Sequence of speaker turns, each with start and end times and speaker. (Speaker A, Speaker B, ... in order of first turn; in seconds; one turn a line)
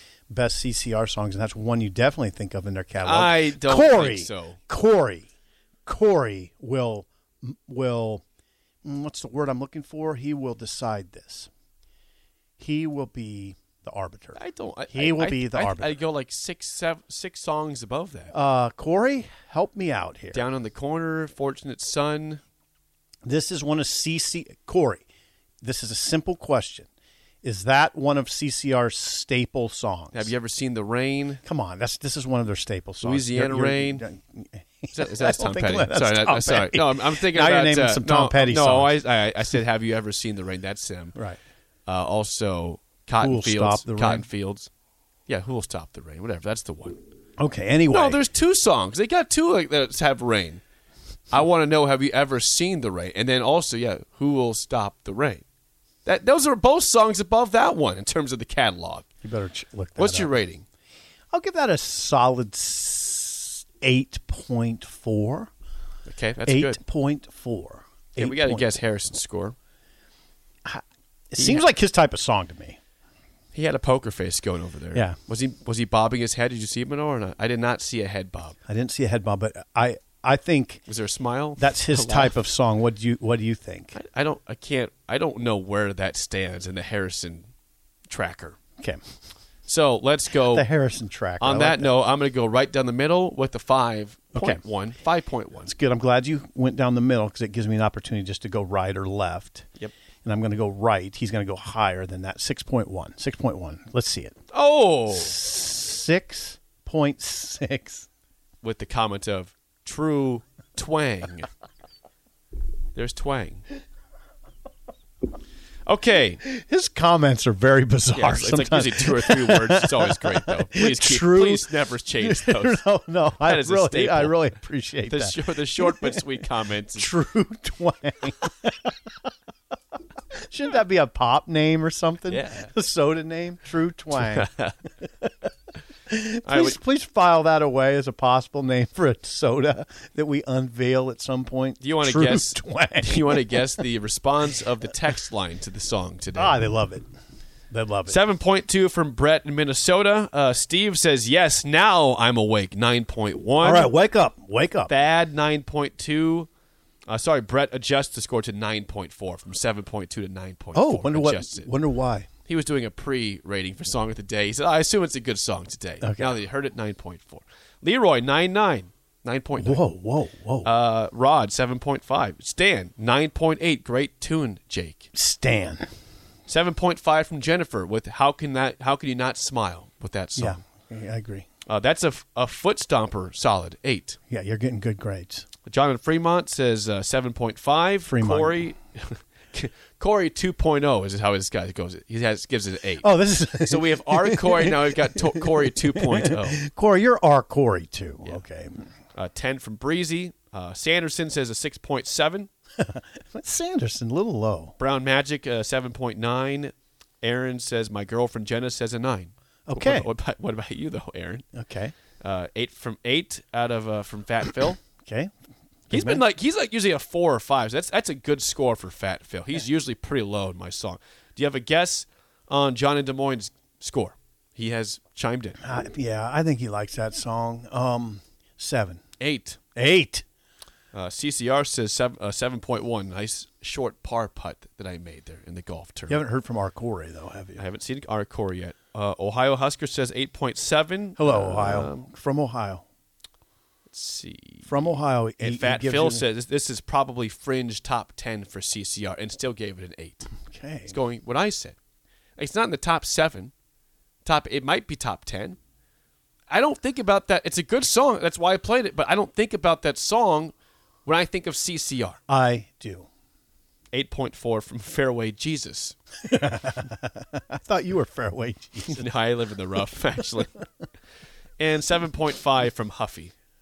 Speaker A: 0.3-5.2
Speaker B: 3.0-4.6
Speaker A: 5.8-8.2
Speaker A: 8.8-11.5
Speaker A: 12.6-14.4
Speaker B: 14.3-18.3
Speaker A: 14.9-16.0
Speaker A: 18.3-20.4
Speaker B: 20.3-22.4
Speaker A: 23.2-25.0
Speaker A: 25.6-26.9
Speaker A: 27.4-30.3
Speaker B: 30.1-31.4
Speaker A: 31.4-39.0
Speaker B: 33.0-34.0
Speaker B: 34.9-41.2
Speaker B: 41.9-44.7
Speaker A: 43.2-44.2
Speaker B: 45.3-47.0
Speaker A: 47.4-48.2
Speaker B: 47.9-50.6
Speaker B: 51.3-55.4
Speaker B: 56.0-59.1
Speaker A: 59.2-60.3
Speaker B: 60.0-60.6
Speaker A: 61.3-65.5
Speaker B: 66.0-66.8
Speaker A: 66.5-68.7
Speaker B: 68.2-69.5
Speaker A: 70.6-72.8
Speaker B: 71.4-71.6
Speaker B: 73.5-78.5
Speaker A: 78.7-80.8
Speaker B: 80.9-82.3
Speaker A: 81.6-84.0
Speaker B: 83.9-87.5
Speaker B: 88.1-88.6
Speaker B: 89.7-90.7
Speaker A: 90.5-91.9
Speaker B: 91.4-95.7
Speaker A: 94.3-94.6
Speaker A: 95.7-99.7
Speaker A: 100.2-104.3
Speaker B: 104.5-105.3
Speaker A: 105.1-108.0
Speaker B: 108.6-111.5
Speaker B: 112.9-113.7
Speaker B: 115.8-116.4
Speaker A: 116.4-128.9
Speaker B: 118.1-122.8
Speaker B: 123.4-124.4
Speaker B: 125.0-127.1
Speaker A: 130.4-134.5
Speaker B: 132.3-132.7
Speaker B: 134.1-134.8
Speaker A: 136.1-143.6
Speaker B: 136.4-136.8
Speaker B: 141.8-146.6
Speaker A: 146.3-147.1
Speaker A: 147.7-148.2
Speaker B: 148.1-153.9
Speaker A: 153.6-154.9
Speaker B: 154.9-156.5
Speaker B: 157.1-161.7
Speaker A: 160.7-162.3
Speaker B: 162.4-169.8
Speaker A: 166.0-166.4
Speaker A: 169.6-170.7
Speaker B: 170.6-175.1
Speaker A: 175.1-175.9
Speaker B: 176.5-180.6
Speaker A: 180.3-181.4
Speaker B: 181.7-184.2
Speaker A: 184.3-185.5
Speaker B: 185.6-193.1
Speaker A: 188.0-188.7
Speaker A: 193.0-198.9
Speaker B: 193.6-196.6
Speaker B: 199.1-202.5
Speaker A: 202.8-204.7
Speaker B: 204.8-211.4
Speaker A: 209.7-210.1
Speaker A: 211.5-211.9
Speaker B: 212.2-214.8
Speaker A: 215.0-215.3
Speaker A: 215.9-216.2
Speaker B: 215.9-225.6
Speaker A: 225.6-229.0
Speaker B: 229.2-229.6
Speaker A: 229.8-230.2
Speaker B: 230.9-236.2
Speaker A: 236.1-237.6
Speaker B: 237.6-242.0
Speaker A: 241.2-242.8
Speaker B: 243.9-250.3
Speaker A: 244.7-246.2
Speaker A: 250.4-250.9
Speaker B: 250.9-251.8
Speaker B: 252.4-253.5
Speaker B: 254.2-255.6
Speaker B: 256.5-260.5
Speaker B: 261.0-262.2
Speaker A: 262.3-263.1
Speaker B: 263.9-266.0
Speaker A: 266.2-269.1
Speaker B: 268.8-270.6
Speaker B: 271.6-273.3